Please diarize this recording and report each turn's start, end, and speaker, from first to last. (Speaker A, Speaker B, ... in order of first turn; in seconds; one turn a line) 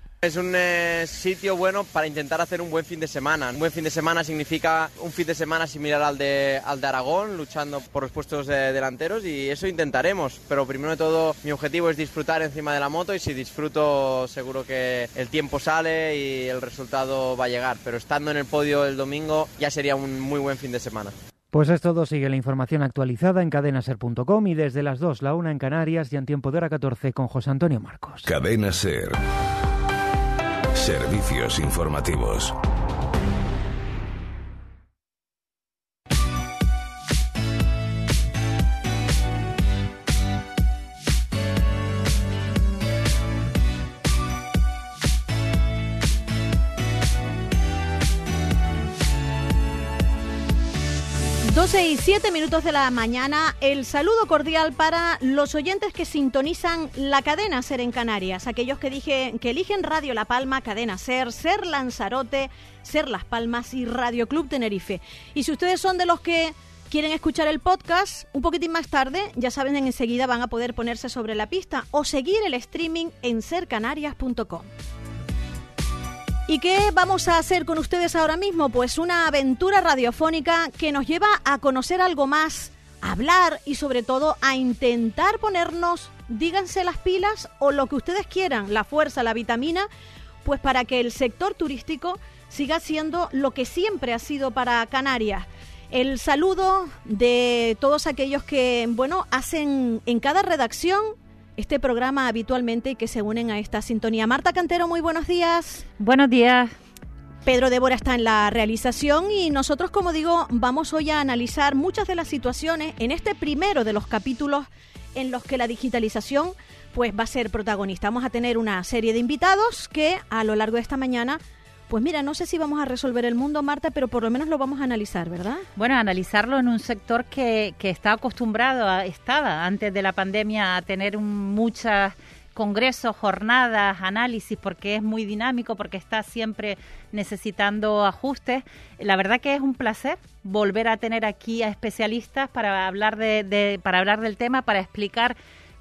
Speaker A: 0.2-21.2
Speaker B: 21.5-28.2
Speaker C: 28.3-29.2
Speaker C: 30.7-32.5
Speaker D: 51.5-74.7
Speaker D: 76.5-89.9
Speaker D: 90.4-105.8
Speaker E: 106.0-106.7
Speaker D: 107.5-125.7
Speaker E: 125.8-145.4